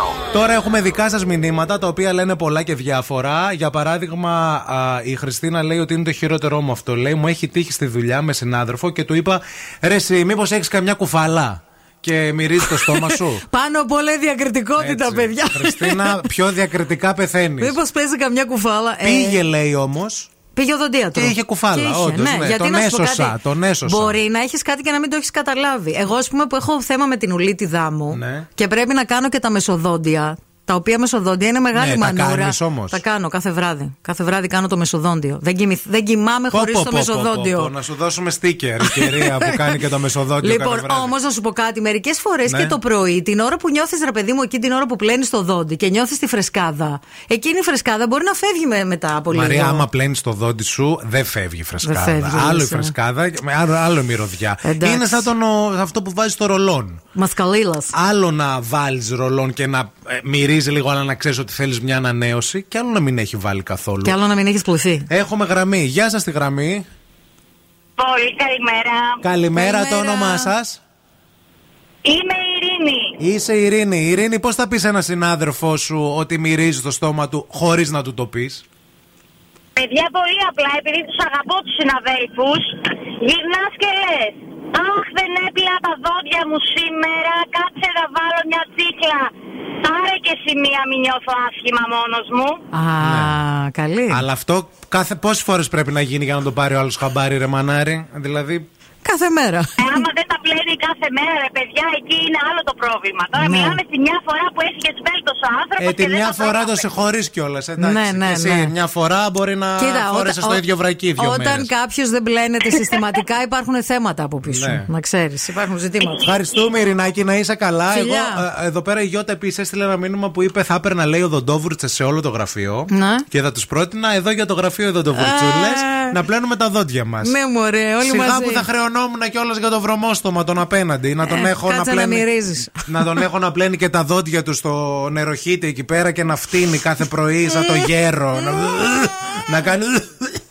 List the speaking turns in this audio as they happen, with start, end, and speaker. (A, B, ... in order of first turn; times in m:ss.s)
0:00.3-0:13.4 A
0:12.8-0:16.3 B
0:14.8-0:17.8 A
0:17.6-0:19.4 B
0:19.0-0:20.3 A
0:20.5-0:37.7 B
0:21.2-0:24.2 A
0:28.1-0:28.5 A
0:31.7-0:33.0 A
0:36.5-0:41.1 A
0:38.8-0:39.7 B
0:40.4-0:49.9 B
0:42.5-0:42.8 A
0:49.3-0:57.0 A
0:51.8-0:52.9 B
0:54.6-0:55.3 B
0:57.2-0:57.9 B
0:57.9-1:04.2 A
1:04.0-1:05.1 B
1:05.1-1:06.8 A
1:08.0-1:09.2 C
1:09.2-1:10.8 A
1:09.5-1:10.5 B
1:12.0-1:13.2 C
1:13.2-1:18.6 A
1:19.8-1:32.6 C
1:32.7-1:34.2 B
1:33.0-1:33.4 A
1:34.1-1:38.7 A
1:39.0-1:40.0 B
1:39.8-1:46.8 C
1:43.4-1:43.8 B
1:45.8-1:51.7 A
1:47.8-1:48.7 B
1:49.8-1:50.6 B
1:51.2-1:56.3 B
1:54.5-1:54.9 A
1:56.0-1:56.4 C
1:56.2-2:07.4 A
1:57.9-1:58.4 B
2:02.9-2:03.3 B
2:05.1-2:06.2 B
2:07.2-2:08.7 B
2:08.0-2:20.4 A
2:11.2-2:13.2 B
2:17.6-2:17.9 B
2:18.5-2:18.8 B